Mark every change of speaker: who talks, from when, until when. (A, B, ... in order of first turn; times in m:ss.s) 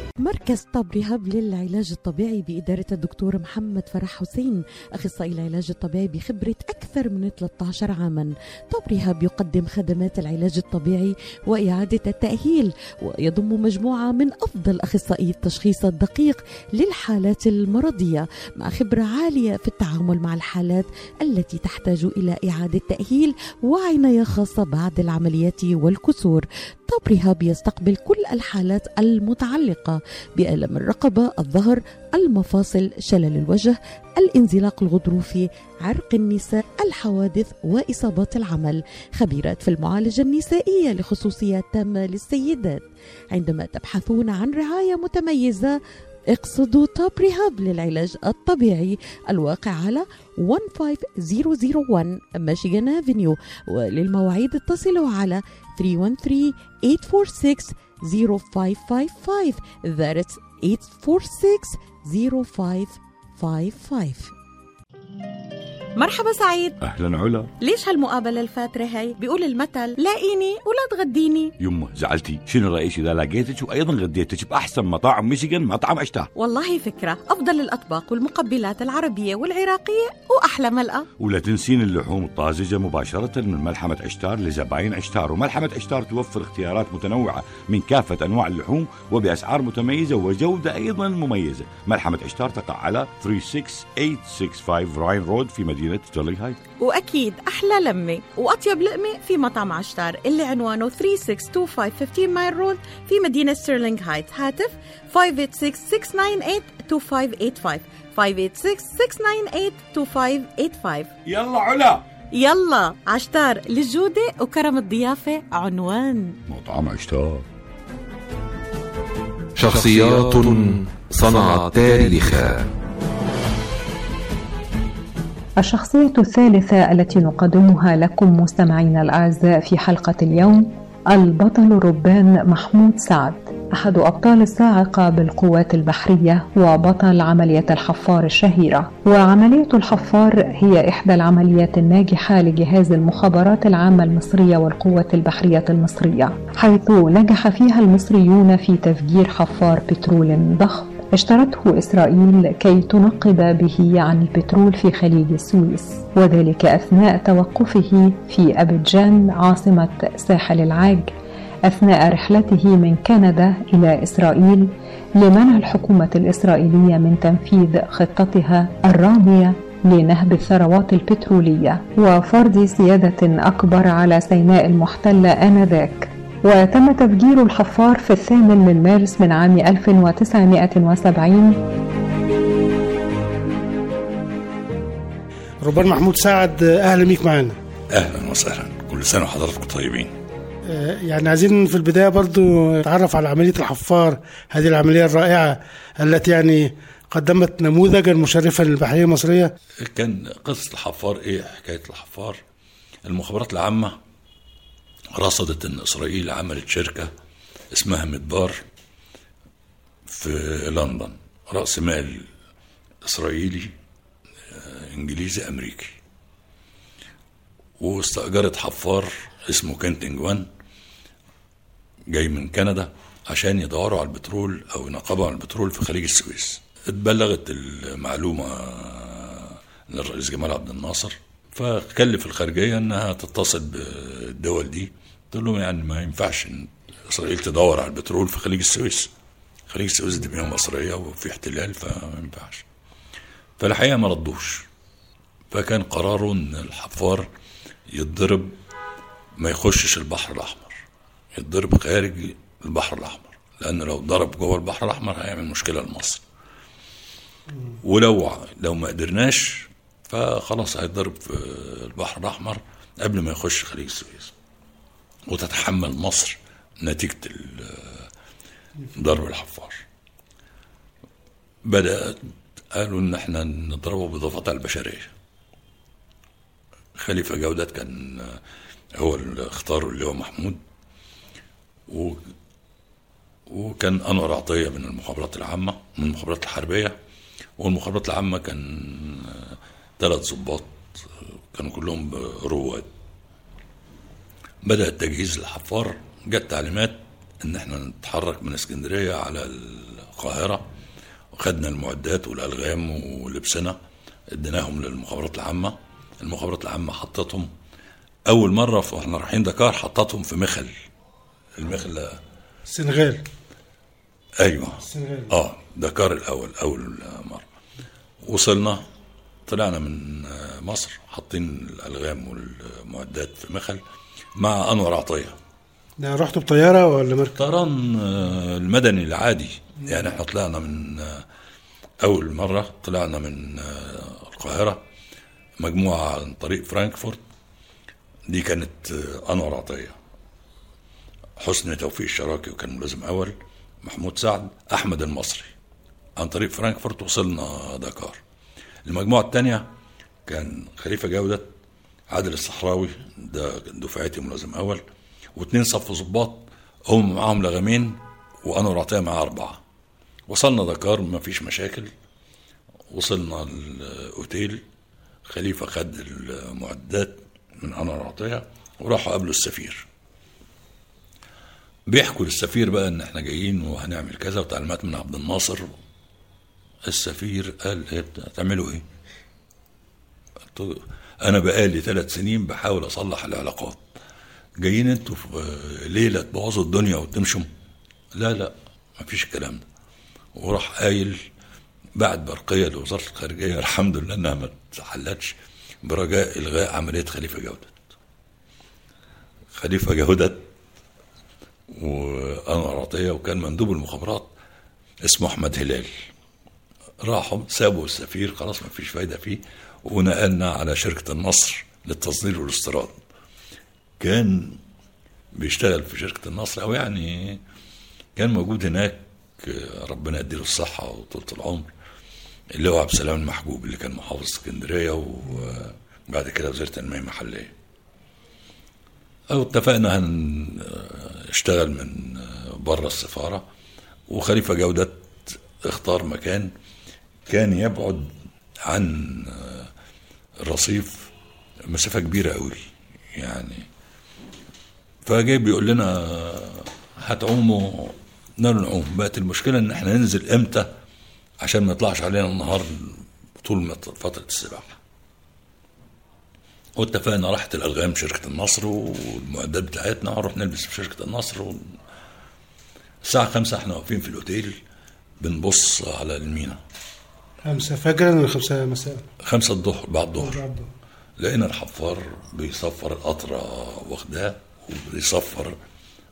0:00.2-0:45.8 A
0:46.3-1:04.3 A
1:06.0-1:06.8 A
1:06.8-1:07.5 B
1:07.6-1:11.5 A
1:11.6-1:16.3 B
1:16.4-1:21.1 A
1:21.2-1:36.6 B
1:36.8-1:51.1 A
1:51.2-1:52.0 B
1:52.3-1:56.4 A
1:56.5-1:57.4 B
1:59.6-2:02.4 C
2:05.6-2:41.1 D
2:41.7-3:01.6 D
3:05.6-3:07.6 E
3:07.9-3:10.1 F
3:10.7-3:19.5 E
3:19.9-3:22.4 F
3:23.0-3:23.9 F
3:25.1-3:27.1 F
3:27.7-3:28.6 F
3:30.1-3:32.3 F
3:33.0-3:33.7 F
3:34.5-3:36.0 F
3:37.8-3:40.5 F
3:42.1-3:59.1 F
3:59.7-4:02.6 F
4:03.6-4:04.6 F
4:05.5-4:07.3 F
4:07.9-4:08.5 F
4:09.4-4:10.8 F
4:11.3-4:16.2 F
4:17.8-4:24.3 F
4:25.3-4:28.0 F
4:28.9-4:29.8 F
4:31.6-4:32.2 F
4:32.7-4:35.1 F
4:37.0-4:38.4 F
4:39.0-4:40.6 F
4:41.9-4:42.2 F
4:43.5-4:47.0 F
4:47.6-4:50.8 F
4:51.5-4:52.9 F
4:54.6-5:00.6 F
5:01.3-5:03.8 F
5:04.3-5:07.5 F
5:08.2-5:10.7 F
5:11.6-5:12.2 F
5:12.7-5:13.2 E
5:14.4-5:17.4 F
5:14.8-5:15.3 E
5:18.2-5:18.8 F
5:19.5-5:23.8 F
5:24.4-5:25.4 F
5:26.0-5:27.4 E
5:27.4-5:31.2 F
5:32.0-5:34.8 F
5:35.6-5:37.2 F
5:38.3-5:40.0 F
5:41.4-5:45.5 F
5:46.2-5:48.2 F
5:48.8-5:49.7 F
5:50.2-5:51.5 F
5:52.1-5:54.8 F
5:55.4-5:59.6 F
6:00.3-6:01.9 F
6:02.9-6:04.6 F
6:05.3-6:09.8 F
6:11.9-6:15.6 F
6:16.9-6:18.8 F
6:20.5-6:23.8 F
6:24.6-6:27.5 F
6:28.1-6:29.6 F
6:30.3-6:31.2 F
6:32.0-6:37.8 F
6:39.5-6:40.4 F
6:41.7-6:44.3 F
6:45.0-6:45.9 F
6:47.0-6:53.0 F
6:54.0-6:54.6 F
6:55.3-6:57.4 F
6:58.2-7:01.7 F
7:02.6-7:07.5 F
7:09.3-7:13.4 F
7:14.1-7:16.5 F
7:17.3-7:18.1 F
7:18.6-7:19.7 F
7:20.4-7:21.1 F
7:21.7-7:22.6 F
7:23.1-7:23.6 F
7:25.0-7:30.7 F
7:31.4-7:34.8 F
7:36.8-7:41.6 F
7:43.0-7:44.6 F
7:45.2-7:46.6 F
7:47.4-7:49.0 E
7:49.2-7:50.4 F
7:50.2-7:50.7 E
7:51.2-7:55.6 F